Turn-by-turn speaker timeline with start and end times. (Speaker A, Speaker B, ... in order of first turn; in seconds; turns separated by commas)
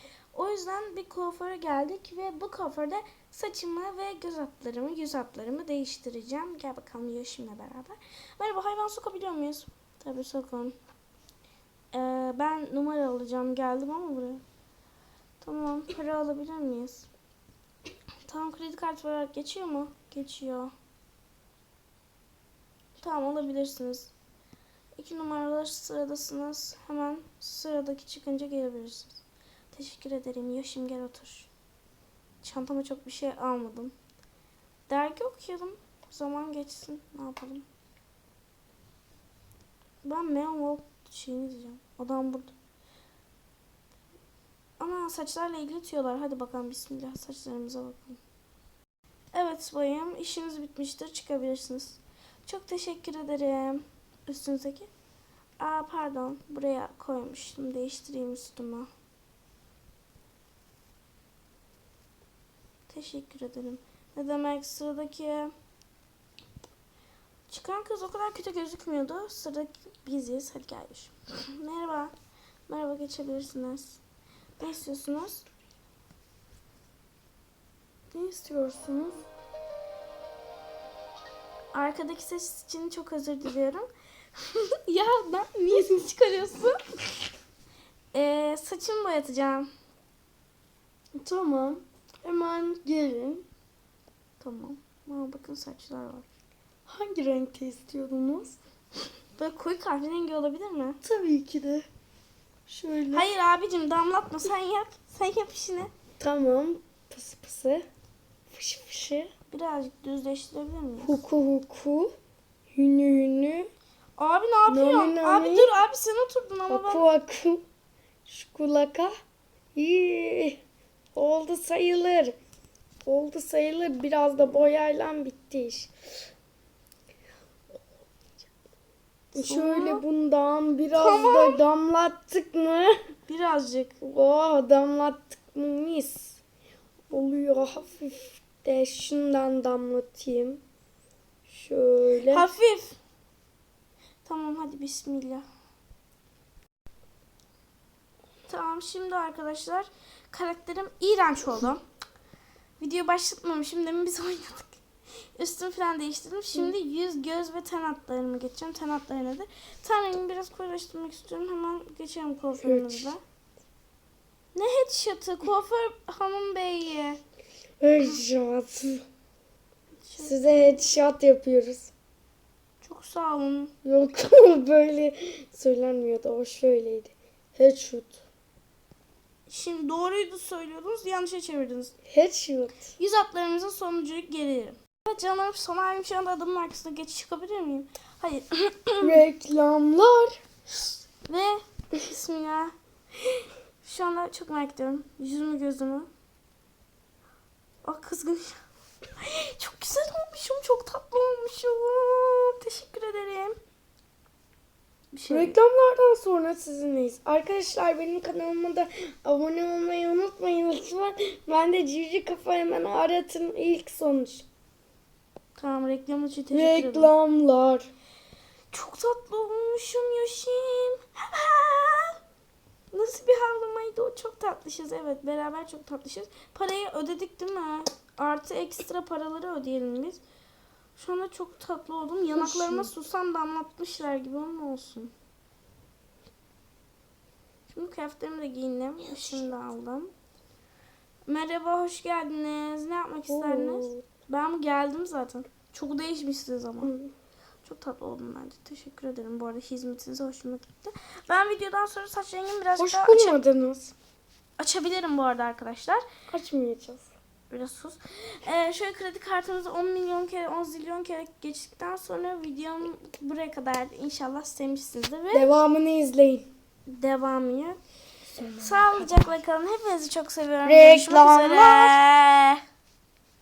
Speaker A: 0.3-10.8, Speaker A: 11.9-14.4, Speaker A: 15.4-17.1, Speaker A: 18.3-20.7, Speaker A: 23.0-24.1, Speaker A: 25.0-31.5, Speaker A: 32.4-33.9, Speaker A: 34.9-37.6, Speaker A: 40.0-42.5, Speaker A: 44.8-48.2, Speaker A: 49.3-54.9, Speaker A: 55.6-58.9, Speaker A: 62.9-65.5, Speaker A: 67.5-72.1, Speaker A: 72.7-74.0, Speaker A: 74.6-75.4, Speaker B: 78.1-79.2, Speaker A: 81.7-83.9, Speaker A: 84.4-86.8, Speaker A: 88.1-89.7, Speaker B: 91.1-93.4, Speaker A: 94.4-96.3, Speaker B: 96.9-98.6, Speaker A: 99.3-101.0, Speaker B: 101.0-101.8, Speaker B: 102.7-103.3, Speaker A: 103.1-105.9, Speaker B: 106.2-107.8, Speaker B: 108.5-109.3, Speaker A: 109.5-111.2, Speaker B: 111.0-112.1, Speaker B: 112.7-113.7, Speaker A: 114.2-117.0, Speaker B: 114.7-115.7, Speaker B: 116.7-117.6, Speaker B: 118.2-119.1, Speaker B: 119.7-120.6, Speaker B: 121.1-122.3, Speaker B: 123.0-125.9, Speaker B: 129.3-133.0, Speaker A: 129.3-130.0, Speaker A: 130.9-131.6, Speaker A: 133.3-133.9, Speaker B: 134.0-136.4, Speaker B: 137.1-140.6, Speaker B: 141.5-142.5, Speaker A: 142.3-143.0, Speaker A: 144.2-145.4, Speaker A: 148.5-151.8, Speaker A: 152.8-154.8, Speaker A: 155.3-163.2, Speaker B: 162.6-163.1, Speaker A: 164.5-167.2, Speaker B: 167.8-169.0, Speaker A: 170.0-170.8, Speaker B: 170.2-171.9, Speaker A: 172.8-173.7, Speaker B: 173.8-178.2, Speaker A: 179.5-181.9, Speaker B: 182.1-182.9, Speaker A: 183.0-189.2, Speaker B: 189.0-190.4, Speaker A: 191.3-192.7, Speaker A: 193.2-196.1, Speaker A: 197.8-198.6, Speaker A: 199.2-203.6, Speaker A: 205.1-205.6, Speaker B: 205.3-214.4, Speaker A: 215.6-217.1, Speaker B: 216.5-217.9, Speaker A: 218.7-222.2, Speaker A: 222.9-230.2, Speaker A: 230.9-235.1, Speaker B: 232.3-232.9, Speaker A: 237.7-240.1, Speaker A: 241.2-246.9, Speaker B: 243.3-244.0, Speaker B: 246.8-247.1, Speaker A: 247.6-253.4, Speaker B: 252.8-253.9, Speaker A: 254.6-256.0, Speaker B: 256.3-257.1, Speaker A: 257.5-265.5, Speaker B: 265.3-266.5, Speaker A: 266.9-267.8, Speaker B: 268.3-269.3, Speaker A: 268.6-272.6, Speaker B: 270.6-272.0